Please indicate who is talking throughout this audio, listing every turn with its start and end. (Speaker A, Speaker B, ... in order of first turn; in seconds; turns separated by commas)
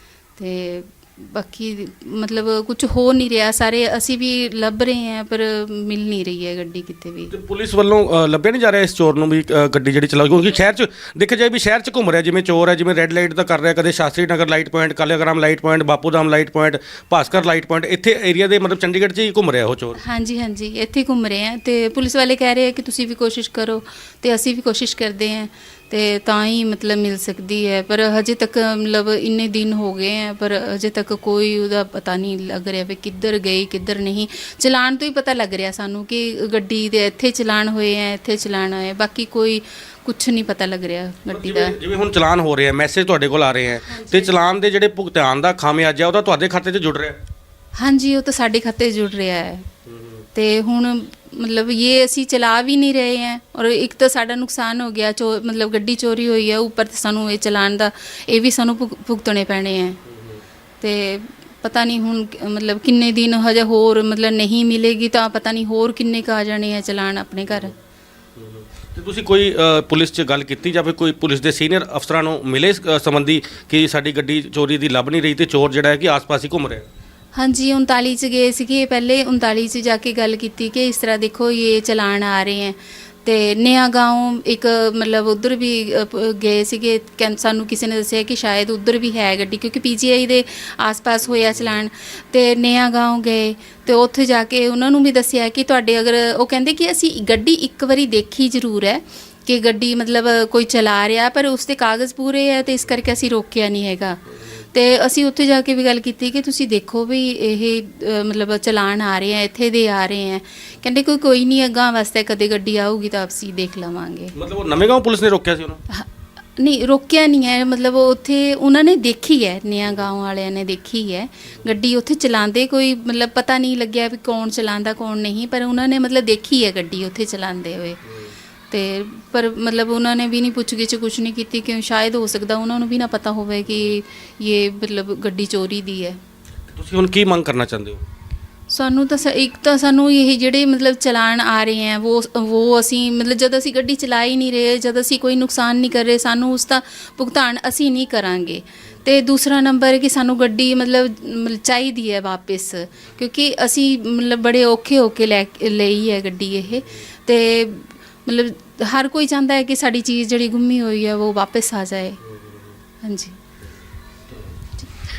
Speaker A: 0.4-7.3, Speaker B: 7.3-20.0, Speaker A: 20.0-41.8, Speaker B: 41.3-47.2, Speaker A: 43.9-44.4, Speaker A: 47.8-49.7, Speaker B: 49.9-50.2, Speaker A: 50.4-60.0, Speaker B: 60.0-60.4, Speaker A: 60.8-67.7, Speaker B: 68.4-76.9, Speaker A: 77.3-104.2, Speaker A: 104.7-114.3, Speaker B: 114.3-115.8, Speaker A: 116.6-128.0, Speaker B: 128.1-128.3, Speaker A: 128.7-136.2, Speaker B: 136.7-138.0, Speaker A: 138.7-162.2, Speaker B: 162.2-162.6, Speaker A: 163.0-163.4